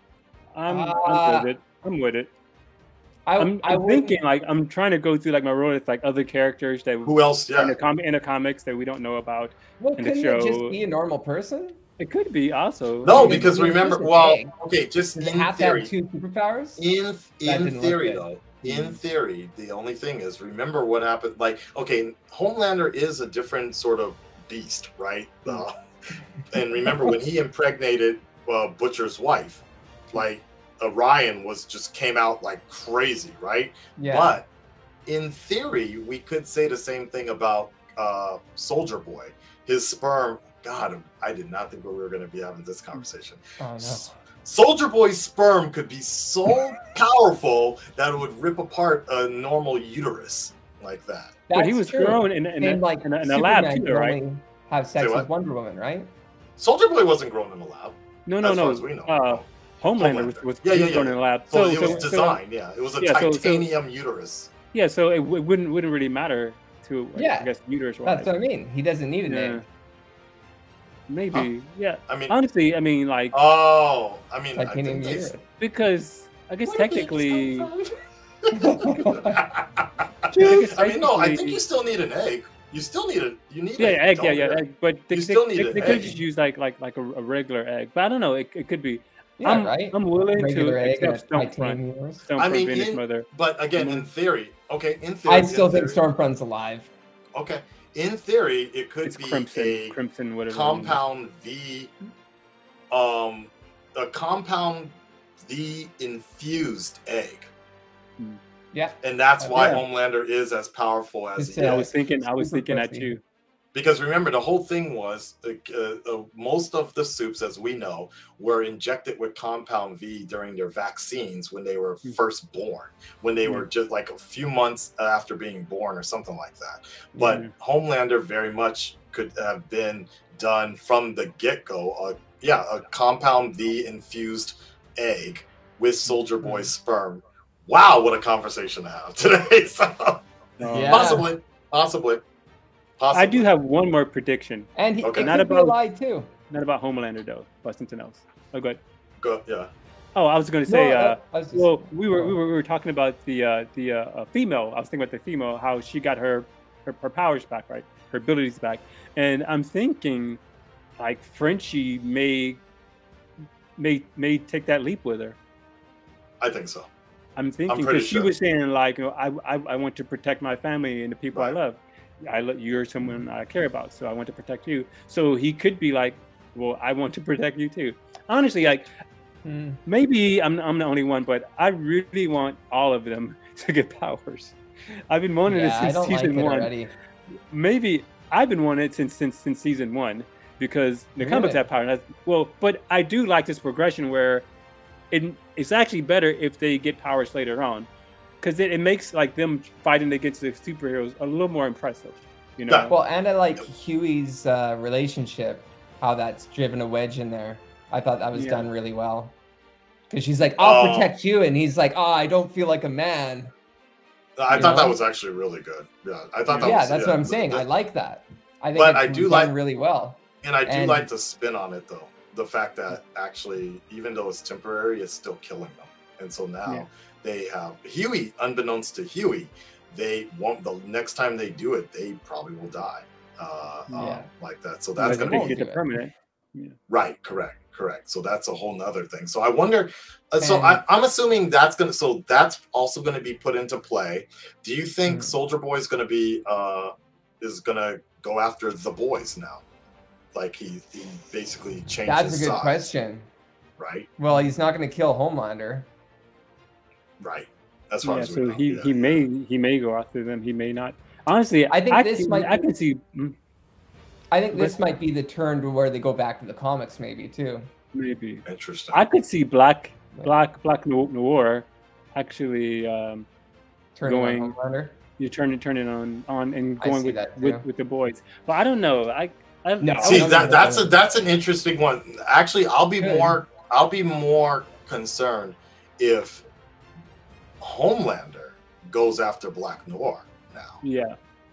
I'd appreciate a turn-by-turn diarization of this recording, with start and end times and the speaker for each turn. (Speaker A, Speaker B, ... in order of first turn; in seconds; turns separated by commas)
Speaker A: 0.6-2.3, Speaker B: 0.7-1.5, Speaker B: 3.2-4.1, Speaker A: 3.4-10.8, Speaker C: 7.0-7.8, Speaker B: 9.8-11.8, Speaker A: 12.0-13.5, Speaker C: 13.0-15.9, Speaker B: 13.1-14.5, Speaker B: 15.1-16.8, Speaker C: 16.8-25.8, Speaker B: 17.4-18.9, Speaker C: 26.5-34.5, Speaker B: 34.0-34.4, Speaker C: 35.0-51.3, Speaker B: 43.6-44.1, Speaker B: 51.5-56.1, Speaker A: 51.5-54.2, Speaker C: 55.0-55.3, Speaker C: 56.6-59.5, Speaker A: 58.2-62.4, Speaker C: 60.0-64.5, Speaker B: 61.8-62.0, Speaker A: 63.0-63.6, Speaker A: 64.7-68.3, Speaker B: 67.2-67.5, Speaker B: 68.0-69.6, Speaker A: 69.3-69.6, Speaker A: 71.1-73.3, Speaker C: 72.1-72.3, Speaker C: 73.3-75.3, Speaker B: 74.5-75.4, Speaker A: 75.6-77.7, Speaker C: 76.7-86.1, Speaker B: 78.5-79.4, Speaker A: 80.3-81.6, Speaker A: 83.8-94.1, Speaker B: 85.8-86.2, Speaker B: 89.4-92.2, Speaker C: 92.4-96.0, Speaker B: 95.2-96.9, Speaker C: 97.3-100.0, Speaker A: 99.0-101.0, Speaker C: 100.5-101.9, Speaker C: 102.9-107.5, Speaker B: 108.7-109.6, Speaker C: 109.0-111.9, Speaker A: 109.5-109.8, Speaker B: 111.4-113.1, Speaker A: 111.6-113.2, Speaker C: 113.7-140.2, Speaker B: 127.1-127.4, Speaker A: 127.2-127.5, Speaker A: 140.6-141.2, Speaker B: 140.7-141.2, Speaker C: 140.8-142.2, Speaker C: 143.0-143.5, Speaker A: 143.1-145.8, Speaker B: 144.8-146.3, Speaker C: 145.0-145.3, Speaker A: 146.5-148.8, Speaker C: 149.2-149.7, Speaker A: 150.1-160.4, Speaker B: 150.7-152.3, Speaker A: 161.0-162.6, Speaker A: 163.8-165.4, Speaker C: 166.4-166.9, Speaker A: 167.3-178.9, Speaker C: 167.7-168.3, Speaker B: 179.4-179.8, Speaker A: 179.8-184.6, Speaker A: 185.1-186.7, Speaker B: 185.5-186.9, Speaker A: 187.5-194.4, Speaker B: 191.2-191.6, Speaker A: 195.1-197.9, Speaker A: 198.4-202.9, Speaker C: 202.7-202.9, Speaker B: 202.9-209.3, Speaker A: 208.3-208.7, Speaker B: 210.1-213.5, Speaker C: 210.6-211.1, Speaker C: 214.4-217.7, Speaker B: 214.5-215.0, Speaker A: 216.5-216.7, Speaker B: 216.6-221.1, Speaker C: 218.7-219.5, Speaker C: 220.4-235.6, Speaker A: 233.9-234.2, Speaker B: 234.0-234.3, Speaker B: 235.0-235.8, Speaker A: 235.0-236.7, Speaker C: 236.9-249.6, Speaker B: 240.4-240.8, Speaker B: 245.1-245.3, Speaker C: 250.3-252.9, Speaker B: 252.0-253.3, Speaker C: 253.8-254.1, Speaker B: 254.2-255.9, Speaker C: 257.2-259.2, Speaker A: 258.0-263.3, Speaker B: 261.7-262.7, Speaker B: 264.3-267.7, Speaker A: 267.9-273.3, Speaker C: 268.5-269.0, Speaker B: 273.9-274.9, Speaker A: 274.0-274.5, Speaker A: 275.2-280.5, Speaker B: 276.8-277.6, Speaker B: 279.8-280.9, Speaker C: 280.0-286.4, Speaker B: 283.0-283.4, Speaker C: 287.6-290.8, Speaker A: 290.8-291.1